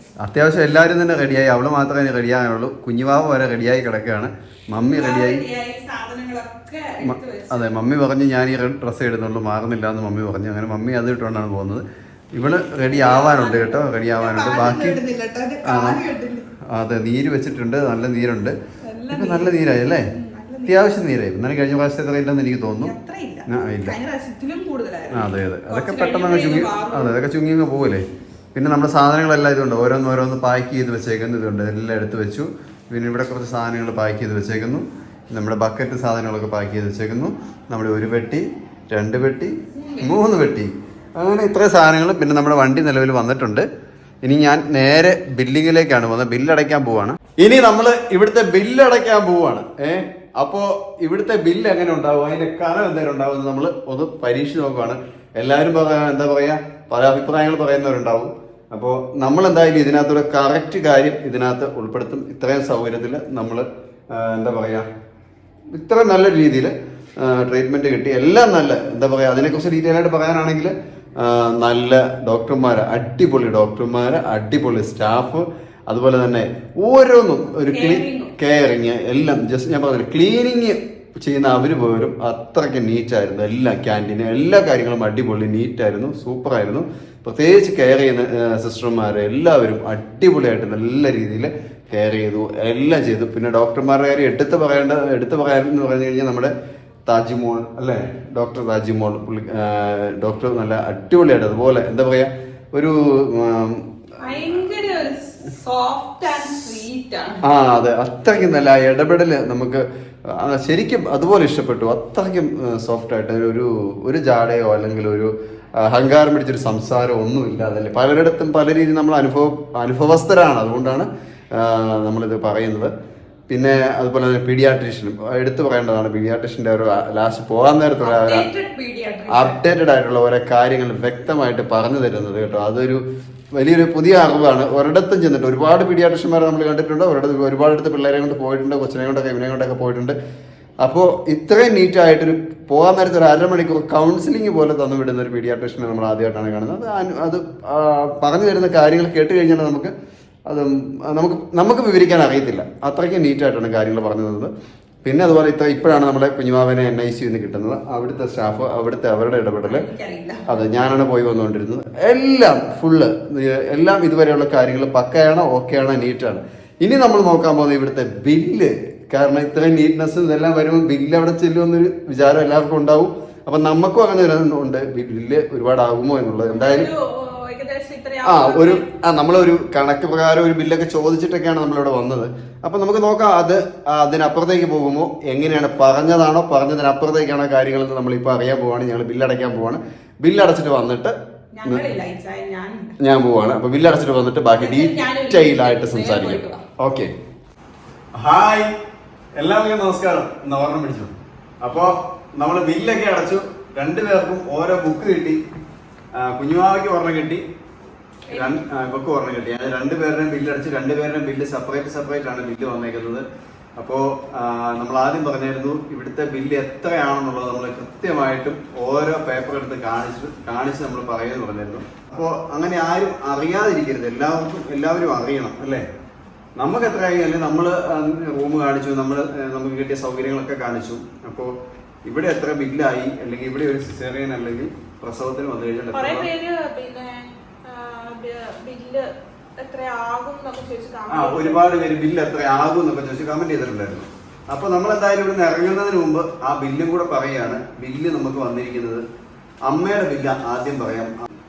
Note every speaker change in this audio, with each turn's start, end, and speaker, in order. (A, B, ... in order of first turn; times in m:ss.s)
0:00.2-0:05.4 A
0:04.8-0:07.7 B
0:07.0-0:15.0 A
0:12.8-0:16.5 B
0:15.6-0:16.0 A
0:16.7-0:18.6 A
0:18.8-0:20.9 B
0:19.1-0:20.1 A
0:20.7-0:22.9 A
0:22.8-0:27.2 B
0:23.5-0:24.0 A
0:25.1-0:28.0 A
0:28.5-0:43.7 A
0:39.7-0:40.2 B
0:44.2-1:04.8 A
1:05.7-1:36.5 A
1:17.7-1:18.3 B
1:37.1-1:44.6 A
1:44.2-1:47.4 B
1:47.4-1:55.3 A
1:55.8-2:02.9 A
2:03.5-2:08.5 A
2:08.0-2:09.6 B
2:09.3-2:13.0 A
2:13.6-2:20.2 A
2:20.8-2:29.9 A
2:30.5-2:34.5 A
2:35.0-2:39.8 A
2:39.6-2:40.5 B
2:40.5-2:56.9 A
2:56.5-2:58.8 B
2:58.2-3:11.9 A
3:11.6-3:13.0 B
3:13.0-3:17.1 A
3:14.6-3:16.6 B
3:18.2-3:18.7 A
3:19.4-3:25.4 A
3:26.2-3:27.4 A
3:28.3-3:28.6 B
3:28.3-3:33.2 A
3:33.8-3:45.8 A
3:46.6-3:51.5 A
3:52.0-3:56.3 A
3:55.9-4:01.8 B
4:01.1-4:09.0 A
4:09.7-4:11.1 A